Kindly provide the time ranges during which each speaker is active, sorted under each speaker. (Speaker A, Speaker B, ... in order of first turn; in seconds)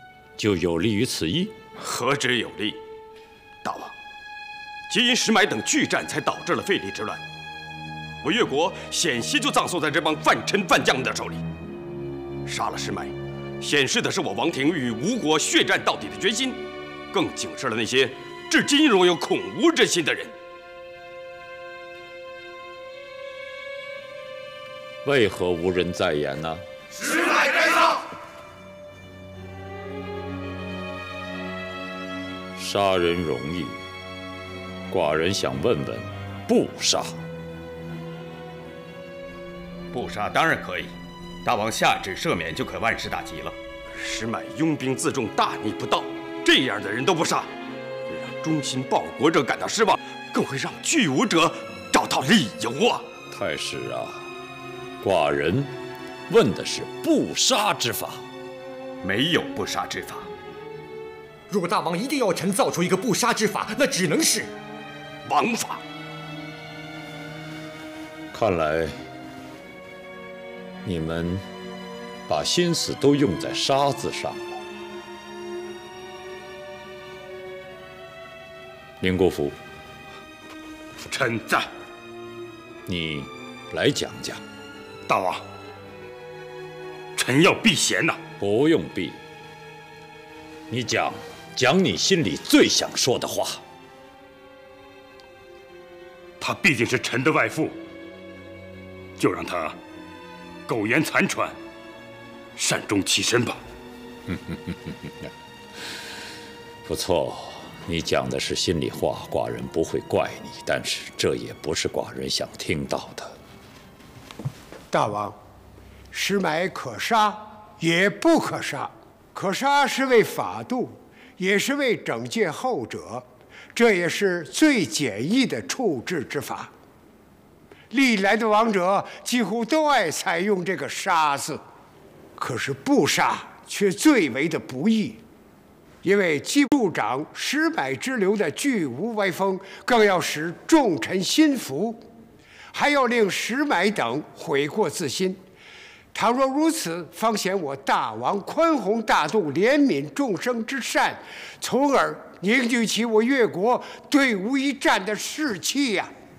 Speaker A: 0.4-1.5, 25.0-26.6, 32.6-33.8, 34.9-37.2, 53.3-54.3, 55.0-55.7, 56.3-58.2, 68.3-69.0, 70.8-71.4, 72.3-74.4, 79.0-79.5, 82.9-84.4, 88.4-89.2, 90.7-93.6, 106.8-113.3
Speaker B: 1.8-2.8, 3.6-4.0, 4.9-7.2, 8.2-11.4, 12.5-20.3, 39.9-47.5, 48.1-53.0, 59.0-60.3, 65.3-65.8
Speaker C: 61.6-64.5
Speaker D: 81.1-81.7, 85.1-85.4, 87.2-88.2, 96.4-97.8, 99.2-99.8, 100.7-101.6, 102.6-103.6
Speaker E: 114.9-115.4, 116.1-126.7, 127.9-131.6, 132.4-135.2, 136.0-142.0, 142.7-145.4, 146.1-156.1